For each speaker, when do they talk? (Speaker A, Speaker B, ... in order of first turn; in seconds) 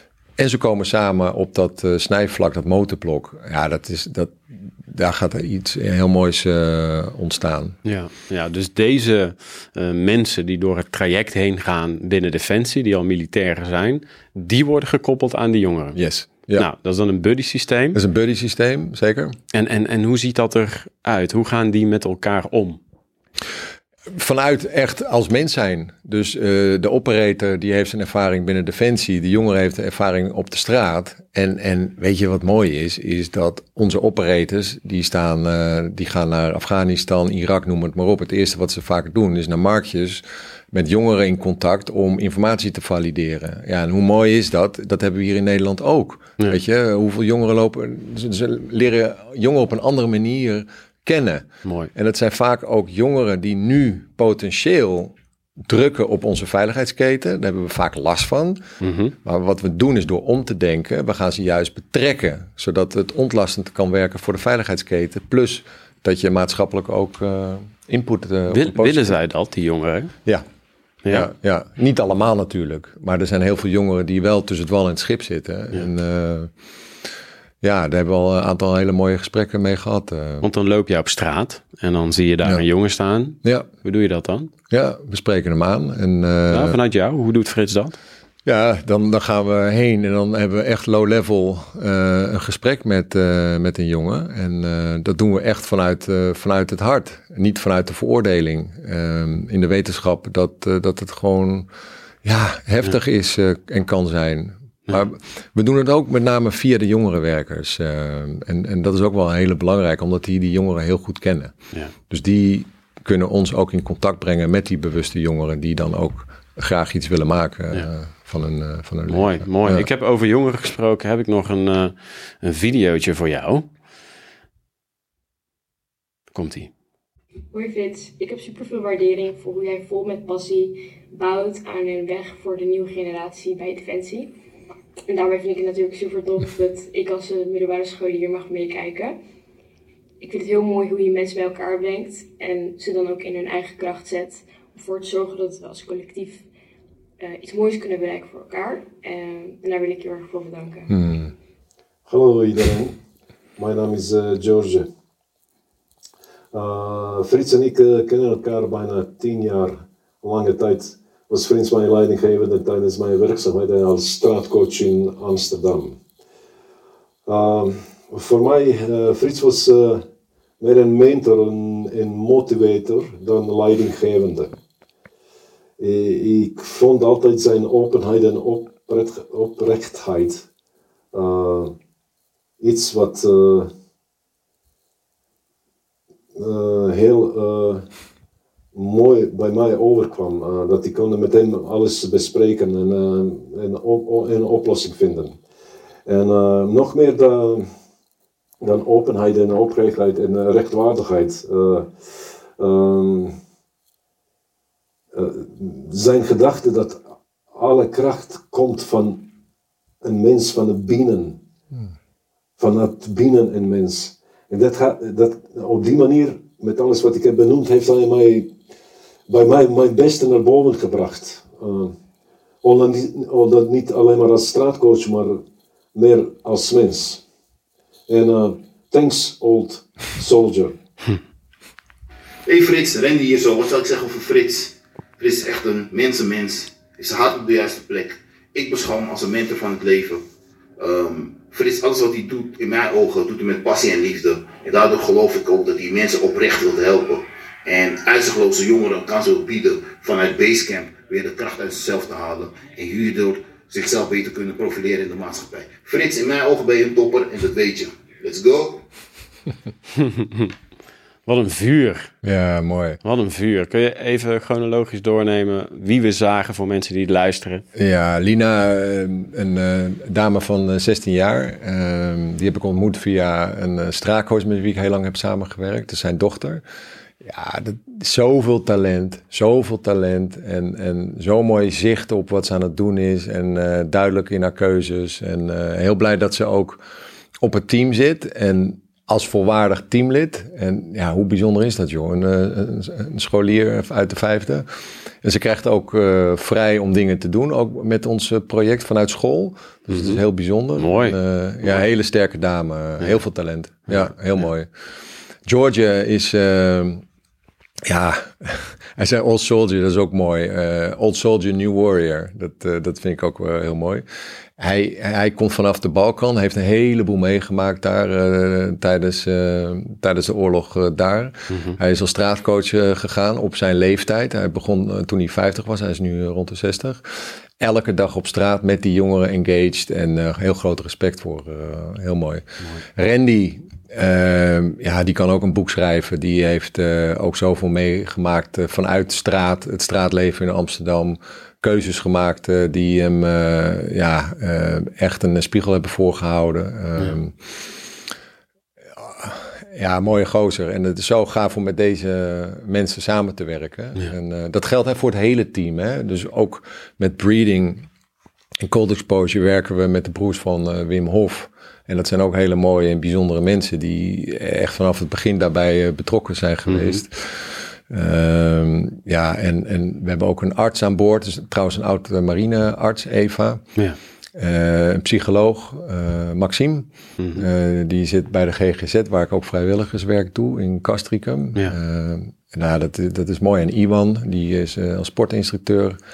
Speaker A: 0.4-7.8, 15.9-16.6, 17.9-19.4, 24.1-58.6, 59.2-69.2, 71.1-76.5, 77.6-80.5, 84.7-86.8, 88.4-101.7, 102.2-111.5, 112.1-119.8, 150.9-151.3, 262.2-263.0, 267.7-276.6, 277.2-286.8, 287.4-294.7, 295.2-304.7, 305.4-307.0, 307.8-314.0, 314.6-347.4, 349.0-357.9, 358.6-373.6, 374.3-386.0
Speaker B: 7.8-16.0, 16.6-18.0, 19.5-22.8, 51.6-51.9, 58.8-59.1, 68.5-70.1, 80.4-84.5, 86.5-88.0, 119.1-123.7, 126.3-126.7, 260.0-260.5, 261.2-262.1, 263.0-267.6, 299.9-300.2, 300.8-301.2, 321.5-321.8, 366.7-367.0, 377.2-377.4
Speaker C: 127.5-134.3, 135.1-139.2, 140.2-146.4, 147.2-150.9
Speaker D: 152.1-153.0, 153.6-154.9, 156.5-166.0, 167.2-170.0, 170.6-174.5, 175.8-180.4, 181.1-181.7, 182.6-183.7, 186.3-187.8, 188.7-195.3, 196.1-197.7, 198.6-203.3, 205.1-207.0, 207.5-209.2, 210.0-211.4, 212.6-218.5, 219.3-221.9, 222.6-225.4, 225.9-227.2, 228.1-230.7
Speaker E: 232.4-240.2, 240.8-258.8